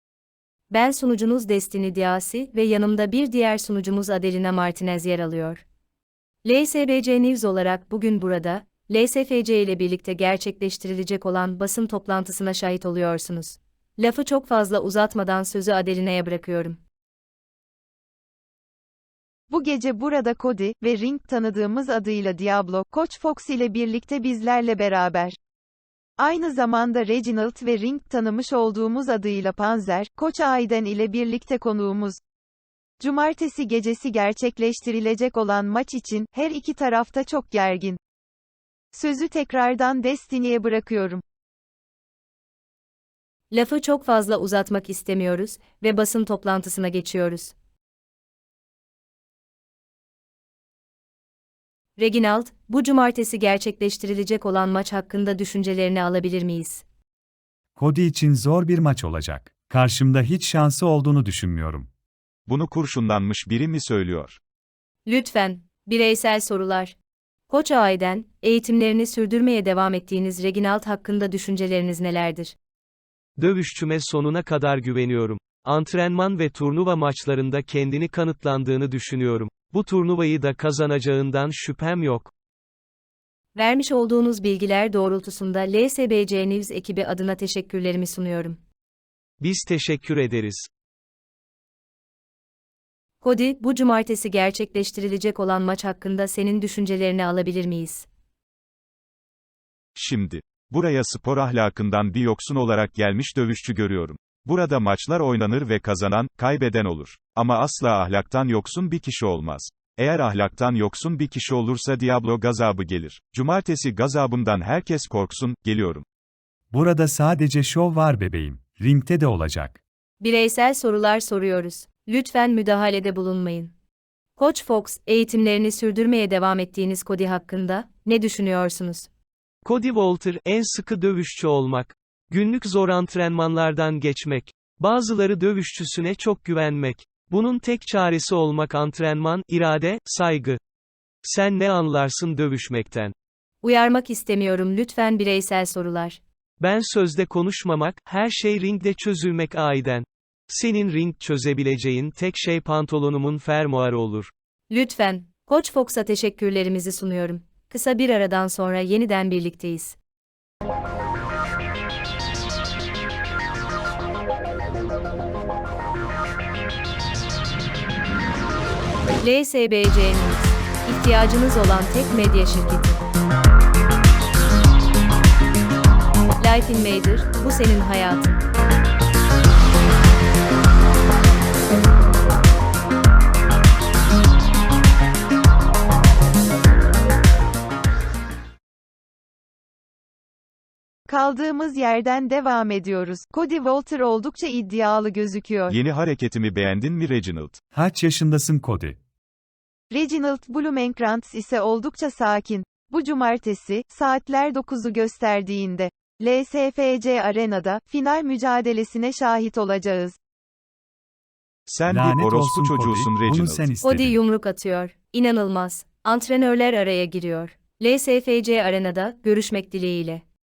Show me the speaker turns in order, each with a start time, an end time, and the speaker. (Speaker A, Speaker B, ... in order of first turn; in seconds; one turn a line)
Speaker A: 0.7-5.6
Speaker A: 6.4-16.8
Speaker B: 19.5-25.4
Speaker B: 26.2-32.2
Speaker B: 33.0-38.0
Speaker B: 38.9-41.2
Speaker A: 43.5-47.5
Speaker A: 52.0-56.8
Speaker C: 57.8-61.9
Speaker D: 62.5-64.4
Speaker A: 65.0-67.0
Speaker A: 67.5-72.5
Speaker E: 73.4-82.3
Speaker A: 83.5-88.6
Speaker E: 89.4-90.7
Speaker A: 93.2-98.1
Speaker D: 100.0-116.0
Speaker C: 116.7-119.8
Speaker A: 120.2-123.7
Speaker A: 124.4-129.1
Speaker E: 129.6-140.6
Speaker E: 141.2-143.1
Speaker A: 143.6-146.2
Speaker E: 146.6-154.3
Speaker A: 154.7-160.0
Speaker A: 169.2-173.0
Speaker A: 176.4-178.4
Speaker B: 191.1-195.8
Speaker D: 195.7-197.6
Speaker C: 197.7-199.0
Speaker B: 199.9-210.2
Speaker D: 211.7-213.7
Speaker C: 211.9-214.2
Speaker A: 213.8-220.2